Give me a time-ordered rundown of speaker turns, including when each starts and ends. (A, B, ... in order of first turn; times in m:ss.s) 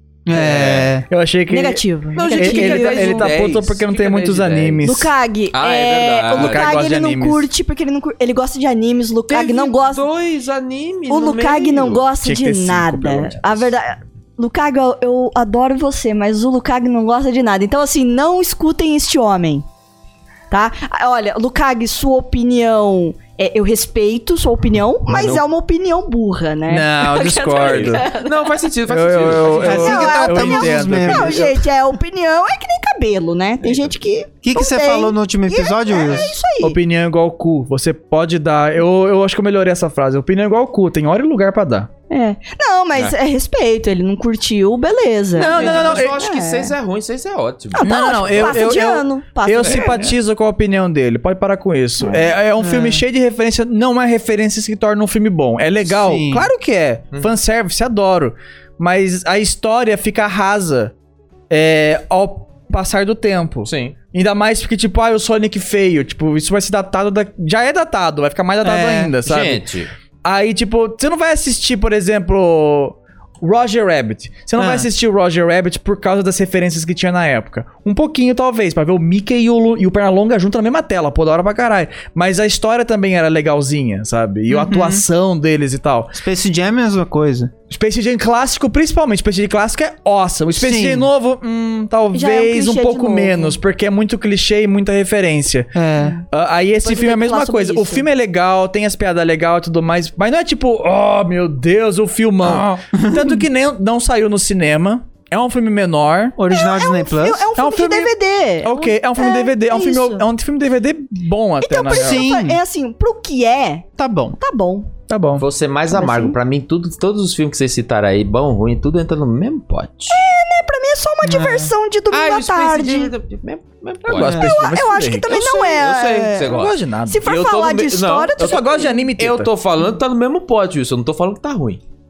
0:00.3-0:01.0 A
0:00.3-0:00.9 B
0:01.1-0:05.1 C
0:01.5-0:03.3 D
0:02.2-0:04.9 B
0:04.8-0:10.1 D
0:05.5-0:06.8 B
0:06.3-0:07.5 C
0:09.3-0:12.0 B
0:11.1-0:19.6 D
0:12.2-0:13.7 C
0:20.5-0:28.5 D
0:25.1-0:25.4 B
0:26.7-0:28.1 C
0:27.6-0:30.0 B
0:28.9-0:31.6 C
0:29.6-0:31.5 A
0:29.7-0:36.8 D
0:33.6-0:34.0 B
0:34.4-0:36.3 A
0:36.6-0:41.9 C
0:42.1-0:46.7 D
0:45.4-0:46.2 C
0:45.4-0:48.6 B
0:47.7-0:49.9 D
0:47.8-1:00.9 C
0:49.6-0:49.9 B
0:52.6-0:53.0 A
0:55.9-0:56.5 A
1:01.5-1:09.6 C
1:03.6-1:04.0 B
1:08.6-1:09.1 A
1:09.2-1:09.9 B
1:10.2-1:26.1 C
1:14.6-1:14.9 A
1:24.5-1:25.0 A
1:26.1-1:27.5 A
1:27.7-1:35.7 C
1:30.6-1:31.1 A
1:32.1-1:33.6 D
1:35.8-1:36.2 A
1:36.3-1:46.4 C
1:36.8-1:38.1 D
1:42.4-1:43.4 A
1:46.4-1:47.5 A
1:46.5-1:50.2 D
1:47.6-1:52.3 C
1:51.6-1:53.9 D
1:51.9-1:52.6 A
1:54.0-1:54.4 A
1:54.4-1:54.9 D
1:55.1-1:55.4 C
1:55.4-2:00.2 B
1:55.9-1:56.4 D
2:00.1-2:03.1 D
2:01.2-2:01.7 A
2:02.1-2:04.5 B
2:04.1-2:05.7 C
2:04.4-2:06.5 D
2:05.3-2:11.8 B
2:06.4-2:07.3 C
2:07.1-2:08.9 D
2:08.4-2:09.5 C